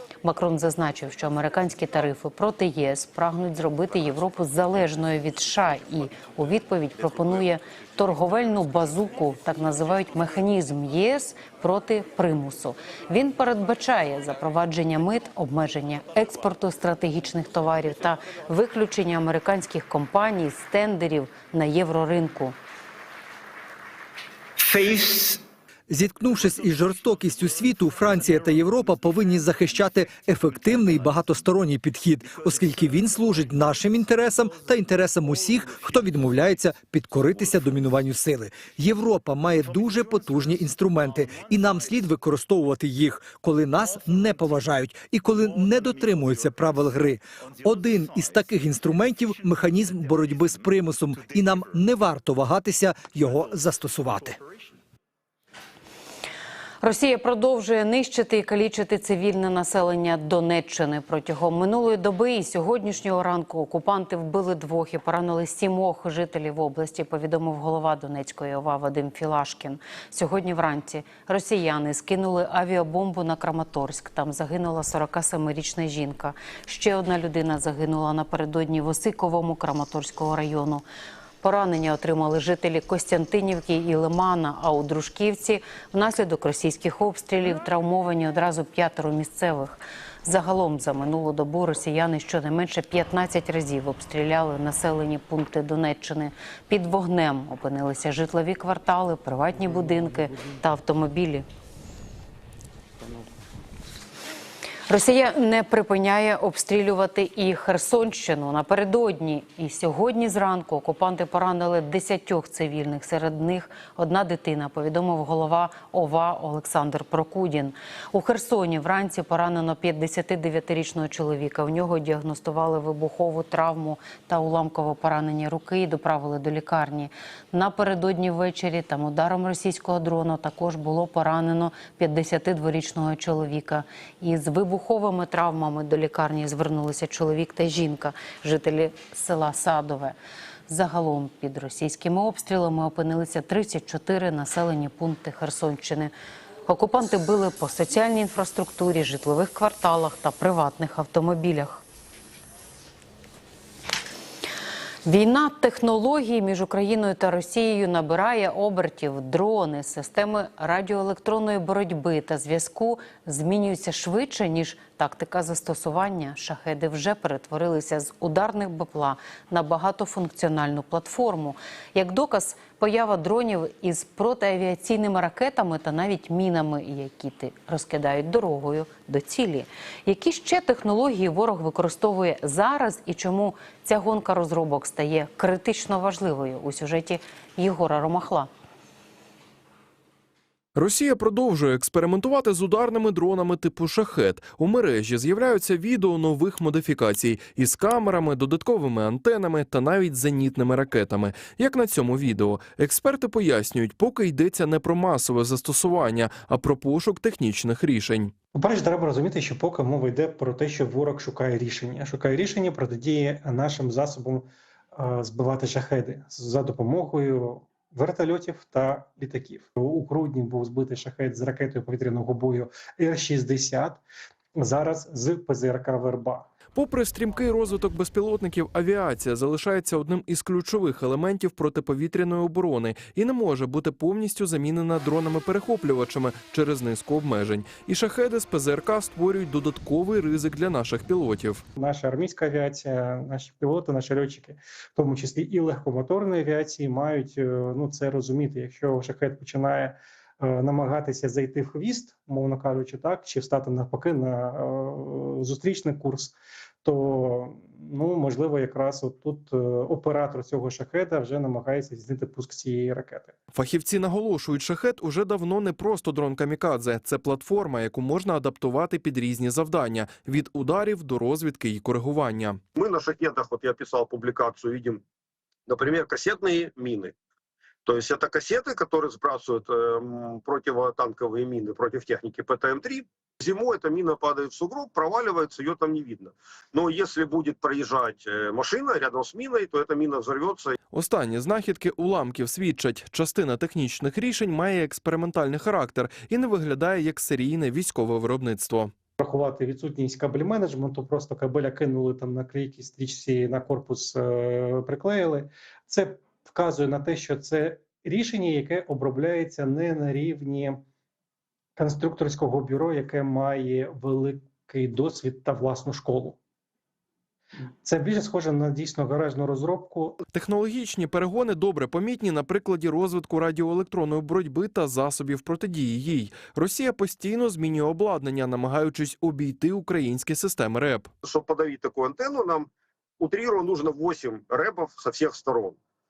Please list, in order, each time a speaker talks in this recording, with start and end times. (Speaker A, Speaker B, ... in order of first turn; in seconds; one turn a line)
Speaker A: 0.2-22.6
Speaker B: 24.7-25.4
Speaker C: 25.9-54.4
Speaker B: 28.2-28.6
Speaker B: 30.5-31.1
Speaker B: 32.3-34.7
Speaker B: 35.6-36.3
Speaker B: 41.4-41.8
Speaker B: 46.1-46.5
Speaker B: 47.5-48.3
Speaker B: 50.0-50.5
Speaker A: 56.8-80.8
Speaker A: 81.4-101.5
Speaker A: 104.9-140.2
Speaker A: 140.7-146.1
Speaker A: 146.7-151.8
Speaker A: 155.0-188.5
Speaker D: 190.8-208.3
Speaker E: 208.5-224.0
Speaker E: 224.6-226.5
Speaker D: 226.8-241.6
Speaker E: 241.8-263.3
Speaker D: 263.5-272.6
Speaker F: 272.8-275.0
Speaker F: 275.7-277.1
Speaker F: 277.8-290.8
Speaker D: 290.9-298.9
Speaker E: 299.2-310.8
Speaker E: 311.8-316.4
Speaker E: 317.8-320.2
Speaker D: 320.3-331.1
Speaker F: 331.2-335.8